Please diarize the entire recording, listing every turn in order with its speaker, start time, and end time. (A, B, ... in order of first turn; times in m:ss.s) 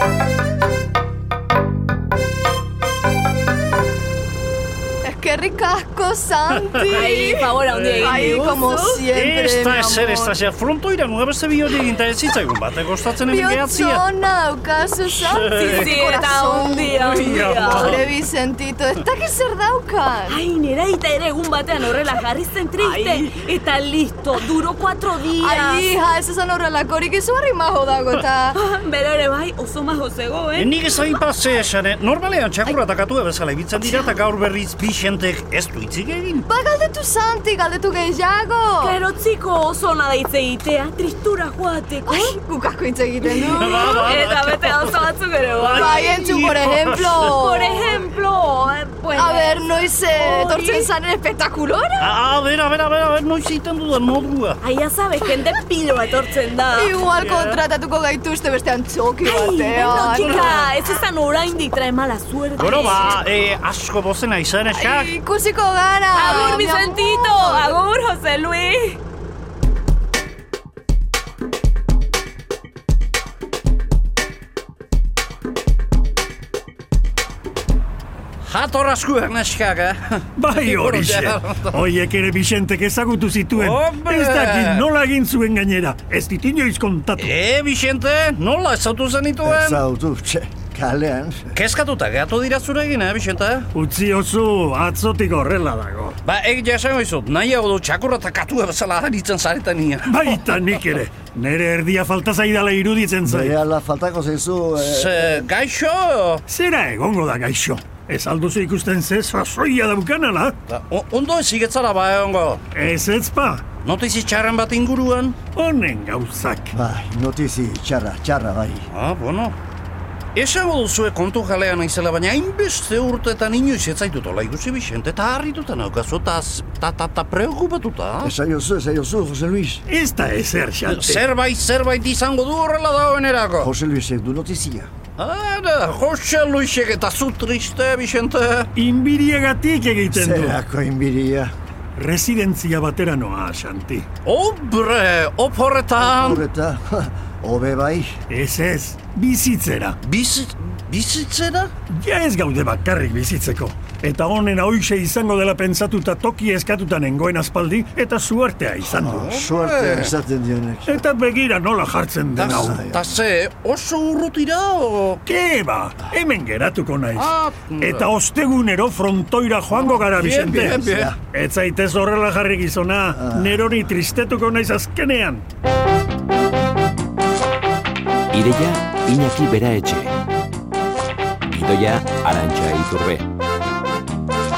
0:05.0-0:10.4 A
0:06.6-0:08.2 B
0:06.9-0:09.0 C
0:09.1-0:14.0 B
0:13.3-0:20.4 A
0:15.1-0:15.9 B
0:15.5-0:17.9 C
0:17.0-0:18.0 B
0:20.3-0:25.8 C
0:22.8-0:23.1 A
0:25.3-0:28.6 A
0:28.5-0:31.0 C
0:30.6-0:36.4 B
0:36.5-0:39.0 A
0:38.8-0:42.4 C
0:42.0-0:44.1 A
0:43.4-0:47.4 B
0:43.6-0:46.1 C
0:45.7-0:48.1 A
0:47.3-0:50.9 C
0:49.1-0:52.2 A
0:52.0-0:54.6 B
0:54.6-0:56.9 C
0:56.7-1:00.7 A
0:57.0-0:57.6 B
0:59.2-1:03.2 C
1:00.1-1:00.6 B
1:02.6-1:05.1 B
1:04.7-1:07.8 A
1:06.1-1:09.0 C
1:18.4-1:21.8 B
1:20.4-1:27.3 D
1:23.5-1:24.8 B
1:27.2-1:29.8 B
1:29.4-1:31.5 E
1:31.5-1:33.7 B
1:33.7-1:36.2 D
1:36.2-1:40.5 B
1:40.1-1:43.6 D
1:43.2-1:45.4 E
1:44.8-1:46.4 B
1:46.5-1:50.5 D
1:50.7-1:52.6 B
1:52.7-1:53.6 D
1:53.8-1:55.4 B
1:55.5-1:56.7 D
1:56.7-1:58.8 E
1:58.9-1:59.6 B
2:00.3-2:08.3 B
2:08.2-2:09.8 E
2:09.9-2:11.2 D
2:10.8-2:13.7 B
2:13.6-2:14.9 E
2:15.2-2:18.7 B
2:18.8-2:20.6 D
2:20.1-2:21.5 E
2:22.0-2:24.0 D
2:24.2-2:26.4 B
2:26.0-2:28.1 E
2:28.3-2:30.0 D
2:30.0-2:31.7 B
2:31.9-2:39.2 D
2:39.0-2:41.0 E
2:39.1-2:40.1 B
2:40.9-2:42.8 D
2:42.3-2:45.2 B
2:42.4-2:43.2 E
2:45.2-2:55.4 D
2:47.1-2:48.1 B
2:49.7-2:51.1 B
2:50.7-2:51.2 E
2:53.2-2:53.6 E
2:58.3-3:00.1 F
3:01.5-3:03.3 F